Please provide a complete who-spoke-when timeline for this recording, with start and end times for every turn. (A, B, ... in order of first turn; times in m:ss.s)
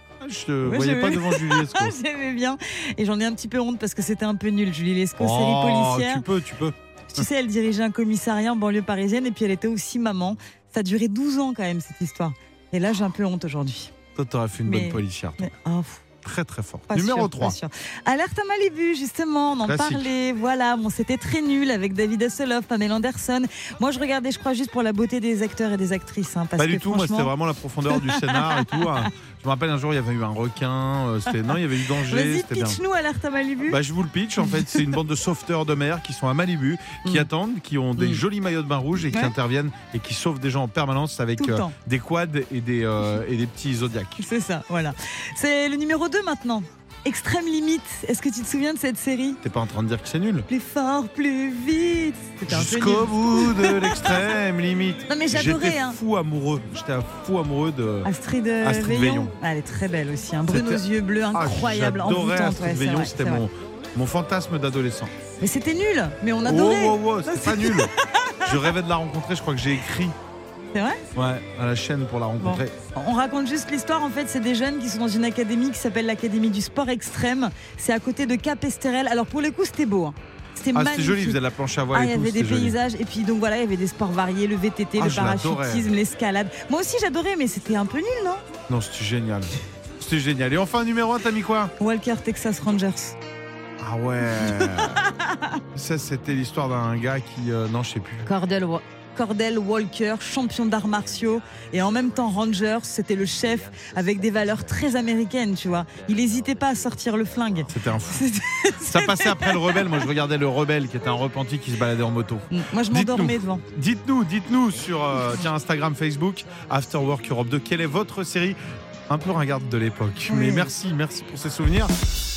0:00.2-0:02.0 A
0:00.6-0:06.2 B
0:05.2-0:07.2 A
0:07.1-0:13.9 B
0:14.2-0:15.5 A
0:14.6-0:16.0 B
0:16.2-0:17.6 A
0:16.9-0:27.3 B
0:19.7-0:20.1 A
0:26.6-0:32.8 A
0:27.9-0:29.1 B
0:32.0-0:33.8 B
0:33.6-0:44.2 A
0:34.4-0:34.8 B
0:38.0-0:38.2 B
0:41.4-0:41.7 B
0:44.2-0:49.4 B
0:49.4-0:50.5 A
0:50.5-0:54.2 B
0:52.5-0:59.3 A
0:55.1-0:56.0 B
0:58.0-1:03.4 B
1:00.5-1:05.1 A
1:05.4-1:08.7 B
1:06.4-1:07.9 A
1:08.4-1:10.2 A
1:10.8-1:11.0 B
1:11.2-1:12.7 A
1:12.4-1:21.4 B
1:20.7-1:22.8 A
1:21.9-1:28.4 B
1:25.0-1:25.9 A
1:28.7-1:31.7 A
1:31.8-1:33.2 B
1:33.8-1:35.1 A
1:34.4-1:35.6 B
1:35.7-1:38.3 A
1:38.2-1:50.0 B
1:47.7-1:48.2 A
1:48.9-2:01.9 A
1:52.5-1:53.6 B
2:00.3-2:00.7 B